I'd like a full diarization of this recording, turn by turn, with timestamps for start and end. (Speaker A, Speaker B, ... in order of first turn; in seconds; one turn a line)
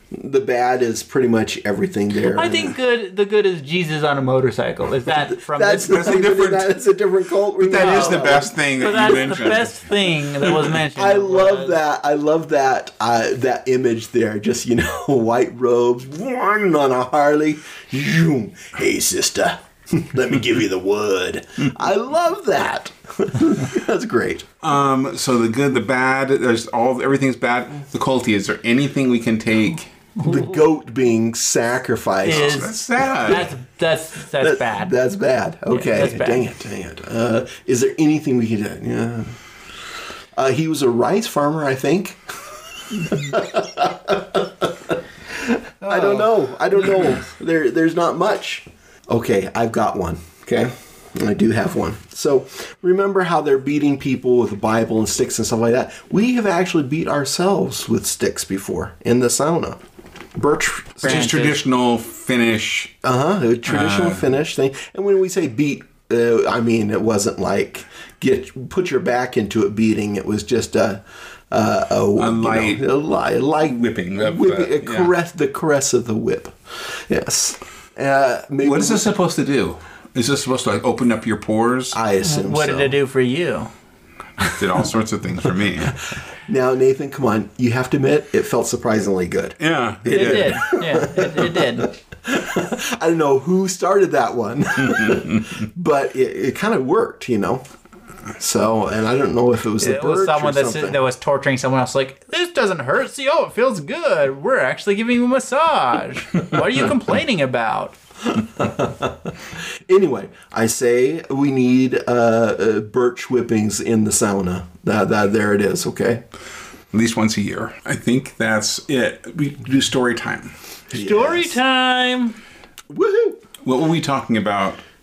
Speaker A: 0.1-2.8
Speaker B: 2.3-6.0
Speaker A: 5.1-9.3
Speaker C: 5.8-6.7
Speaker C: 7.6-10.7
Speaker B: 7.8-8.2
Speaker B: 8.8-11.8
Speaker A: 10.9-24.5
Speaker C: 24.6-29.9
Speaker A: 30.2-33.5
Speaker B: 30.2-30.5
Speaker B: 32.2-34.9
Speaker C: 32.3-33.5
Speaker A: 34.4-39.4
Speaker B: 35.7-36.5
Speaker A: 40.4-59.8
Speaker A: 60.4-61.4
Speaker B: 61.0-61.6
Speaker C: 61.0-62.9
Speaker A: 63.0-79.0
Speaker C: 63.7-64.3
Speaker C: 72.2-72.8
Speaker C: 73.7-75.1
Speaker C: 78.6-82.0
Speaker A: 81.9-83.0
Speaker B: 82.2-83.7
Speaker C: 84.5-86.0
Speaker A: 86.5-97.6
Speaker C: 89.6-90.6
Speaker B: 90.1-91.9
Speaker C: 94.9-95.5
Speaker A: 98.4-101.0
Speaker B: 99.8-108.0
Speaker A: 108.3-116.2
Speaker C: 116.9-120.5
Speaker A: 120.9-121.6
Speaker B: 120.9-122.4
Speaker A: 122.9-123.4
Speaker C: 123.6-124.8